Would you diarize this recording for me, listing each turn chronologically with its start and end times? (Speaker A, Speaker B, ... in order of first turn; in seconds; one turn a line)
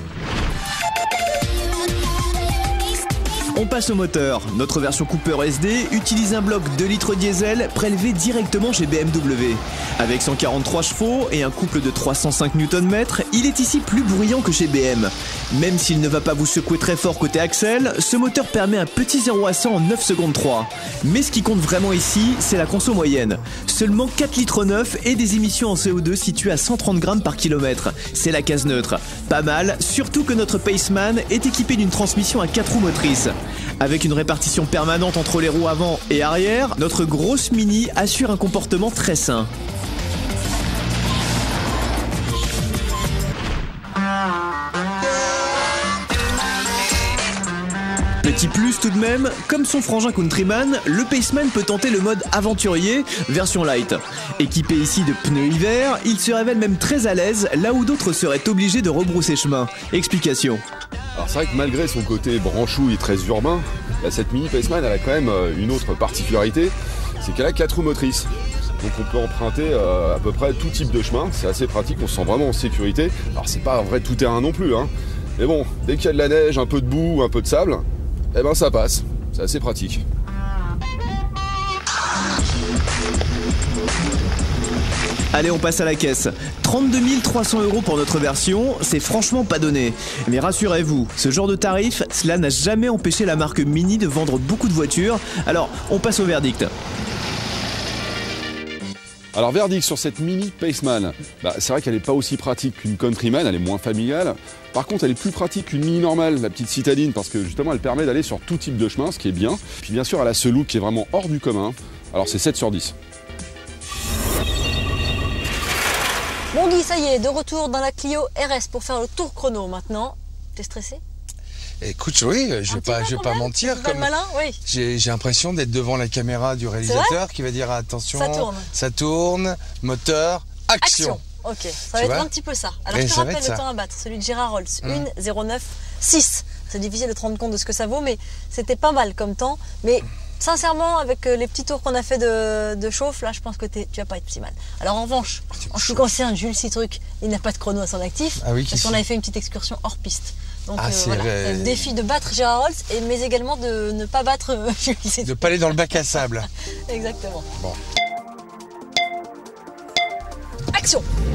Speaker A: 3.5-39.5
Speaker A: 48.2-60.6
Speaker B: 61.1-68.3
Speaker B: 68.8-80.0
Speaker A: 85.3-96.7
Speaker B: 99.3-112.9
Speaker C: 116.5-121.0
Speaker D: 121.8-124.1
Speaker C: 122.7-124.6
Speaker D: 124.6-131.2
Speaker C: 126.8-127.2
Speaker C: 128.1-128.7
Speaker C: 130.8-156.0
Speaker D: 131.9-132.3
Speaker D: 132.9-133.6
Speaker D: 145.6-146.1
Speaker D: 148.4-149.0
Speaker D: 150.8-151.9
Speaker D: 155.2-156.5
Speaker C: 156.9-157.4
Speaker C: 160.7-161.0